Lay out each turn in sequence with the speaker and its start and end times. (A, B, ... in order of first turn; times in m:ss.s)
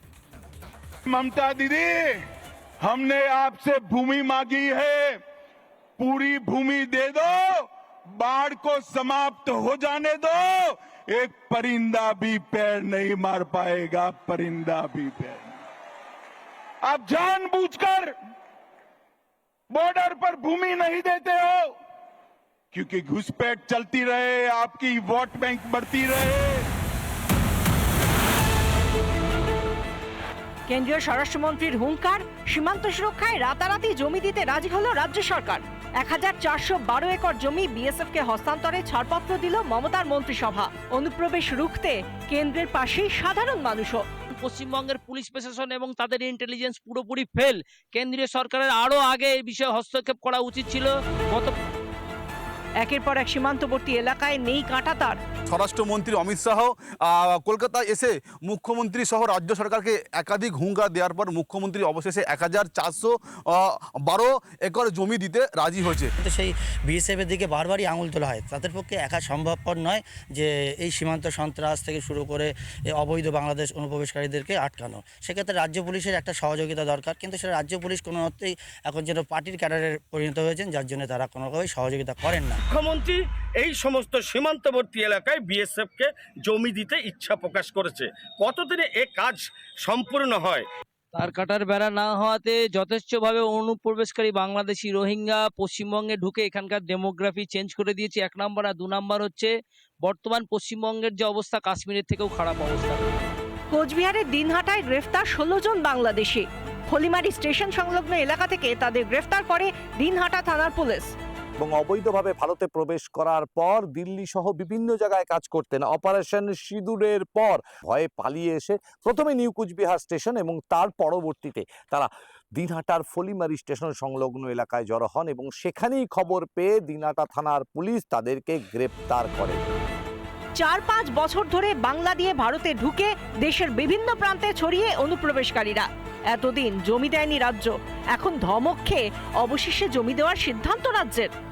0:01.0-0:02.1 A
0:02.8-0:05.2 A
0:06.0-0:15.5 A
0:16.8-0:18.1 A
0:19.7-0:21.7 A
0:22.7-0:26.6 A
0:30.7-0:44.0 B
0:44.4-0:51.5 C
0:52.8-0:55.2 B
0:55.5-1:06.1 D
1:06.2-1:22.6 E
1:22.7-1:30.7 F
1:31.1-1:43.1 C
1:43.7-1:51.1 B
1:51.6-2:09.7 G
2:10.6-2:21.3 B